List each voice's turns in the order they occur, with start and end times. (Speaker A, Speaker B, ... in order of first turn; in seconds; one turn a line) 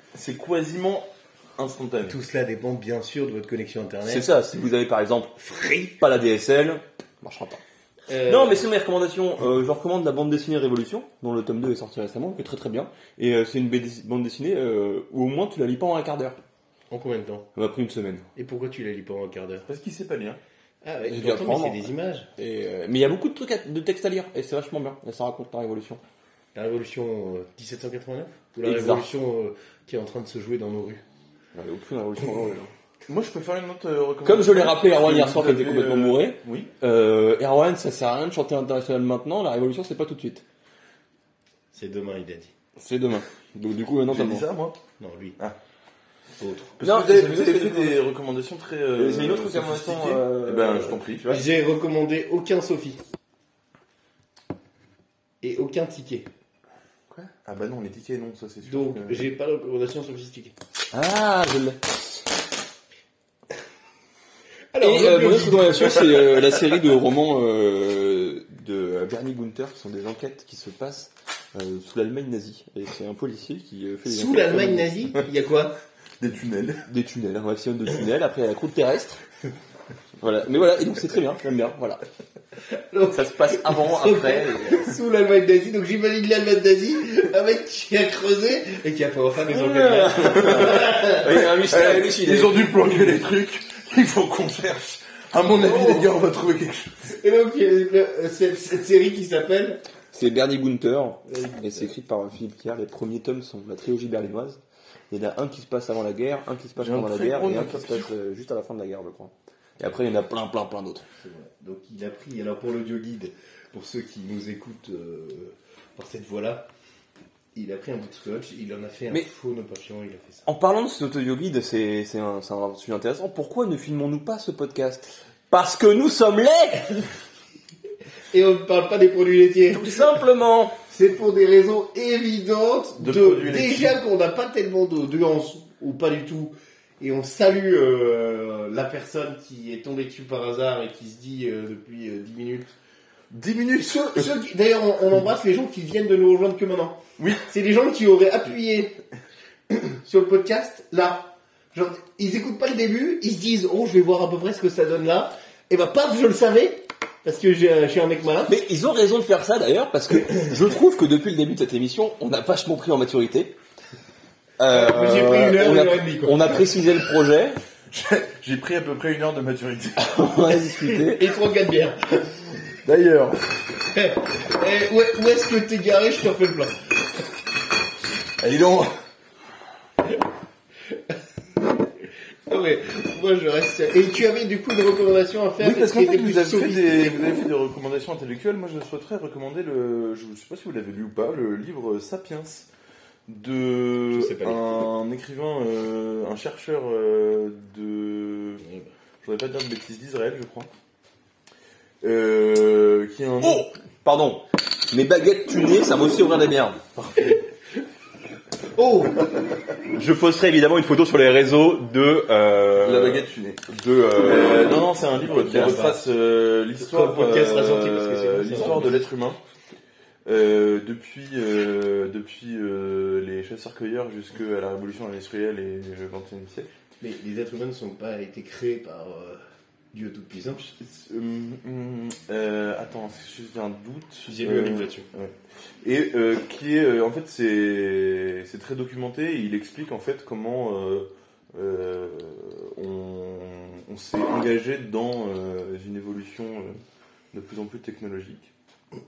Speaker A: 0.1-2.2
Speaker B: 2.0-4.3
Speaker C: 4.0-7.6
Speaker B: 5.4-5.9
Speaker B: 8.1-8.6
Speaker C: 8.2-16.4
Speaker B: 16.9-17.5
Speaker C: 17.5-18.2
Speaker B: 18.4-19.6
Speaker A: 19.7-20.4
Speaker B: 20.8-22.3
Speaker C: 21.1-26.0
Speaker B: 26.5-31.0
Speaker C: 28.6-29.1
Speaker C: 31.5-32.7
Speaker A: 33.1-36.7
Speaker C: 34.2-40.4
Speaker B: 41.7-42.5
Speaker C: 42.8-44.4
Speaker A: 42.9-43.2
Speaker A: 44.1-44.8
Speaker B: 45.0-45.4
Speaker B: 46.4-46.8
Speaker A: 46.8-51.4
Speaker C: 46.8-48.0
Speaker C: 49.0-51.4
Speaker B: 51.3-53.0
Speaker B: 55.4-56.3
Speaker A: 57.4-59.3
Speaker B: 58.6-60.5
Speaker C: 60.9-61.8
Speaker B: 64.7-66.2
Speaker C: 64.8-74.9
Speaker B: 74.0-75.8
Speaker A: 76.2-76.8
Speaker C: 76.9-79.2
Speaker C: 80.2-82.0
Speaker B: 82.9-91.3
Speaker C: 83.1-84.9
Speaker C: 89.5-92.7
Speaker A: 90.4-90.7
Speaker A: 91.3-97.1
Speaker B: 95.5-96.0
Speaker B: 97.1-99.8
Speaker C: 100.1-104.6
Speaker B: 101.3-101.8
Speaker C: 105.1-111.0
Speaker A: 106.8-108.1
Speaker B: 111.2-116.7
Speaker B: 117.5-120.5
Speaker C: 120.5-127.1
Speaker B: 128.3-130.0
Speaker C: 129.7-130.8
Speaker B: 130.9-142.7
Speaker A: 133.0-134.0
Speaker A: 143.3-144.4
Speaker B: 143.9-149.0
Speaker A: 147.2-147.4
Speaker B: 149.7-158.5
Speaker C: 158.5-163.6
Speaker C: 164.6-167.6
Speaker B: 164.7-166.6
Speaker A: 167.9-170.3
Speaker C: 170.0-171.3
Speaker B: 170.8-172.2
Speaker A: 172.8-173.4
Speaker B: 173.9-176.8
Speaker A: 178.4-178.9
Speaker B: 182.5-187.2
Speaker A: 185.6-192.7
Speaker A: 193.3-198.6
Speaker B: 194.1-194.7
Speaker A: 199.2-200.7
Speaker A: 202.0-203.7
Speaker C: 203.4-206.8
Speaker A: 206.9-207.3
Speaker B: 208.8-209.2
Speaker C: 209.9-214.7
Speaker A: 212.8-213.7
Speaker A: 214.2-219.4
Speaker C: 215.3-215.8
Speaker B: 215.4-216.0
Speaker B: 216.8-219.0
Speaker A: 220.2-226.7
Speaker B: 227.0-229.4
Speaker B: 229.9-230.7
Speaker A: 230.6-246.8
Speaker B: 234.3-235.0
Speaker A: 247.3-248.5